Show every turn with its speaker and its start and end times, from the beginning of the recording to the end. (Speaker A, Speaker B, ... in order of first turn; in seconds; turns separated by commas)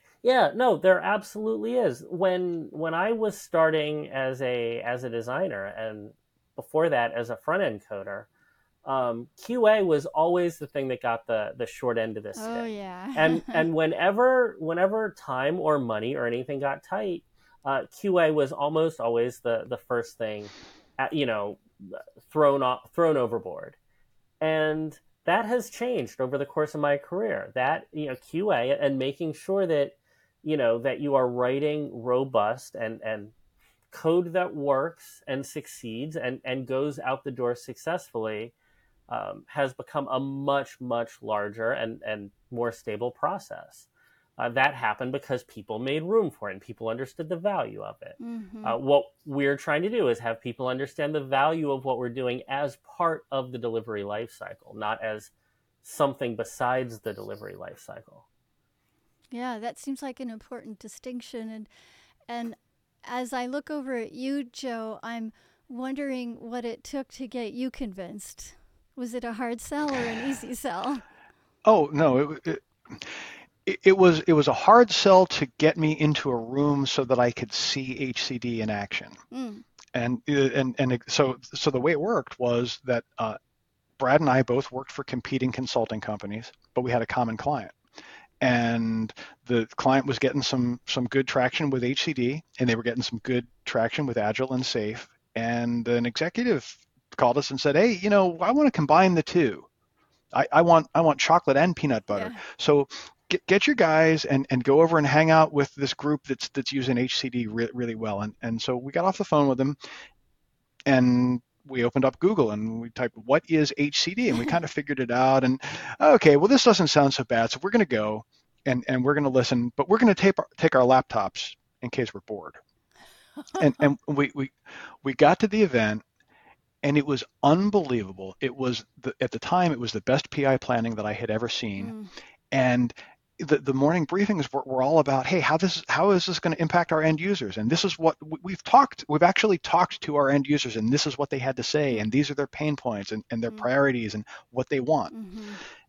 Speaker A: 0.2-8.3, Speaker A: 8.8-23.8, Speaker B: 12.4-13.7, Speaker A: 24.4-33.3, Speaker A: 33.9-38.5, Speaker A: 39.1-43.9, Speaker A: 44.4-55.3, Speaker B: 48.2-48.8, Speaker A: 55.8-58.2, Speaker B: 59.3-61.7, Speaker B: 62.3-71.0, Speaker C: 71.6-79.2, Speaker B: 79.3-79.7, Speaker C: 79.9-83.4, Speaker C: 84.0-87.7, Speaker C: 88.4-99.7, Speaker C: 100.3-109.8, Speaker B: 102.1-102.4, Speaker C: 110.8-122.6, Speaker B: 123.5-123.8, Speaker C: 123.5-126.0, Speaker C: 126.8-131.9, Speaker B: 131.8-132.1, Speaker C: 132.5-145.1, Speaker B: 145.1-145.6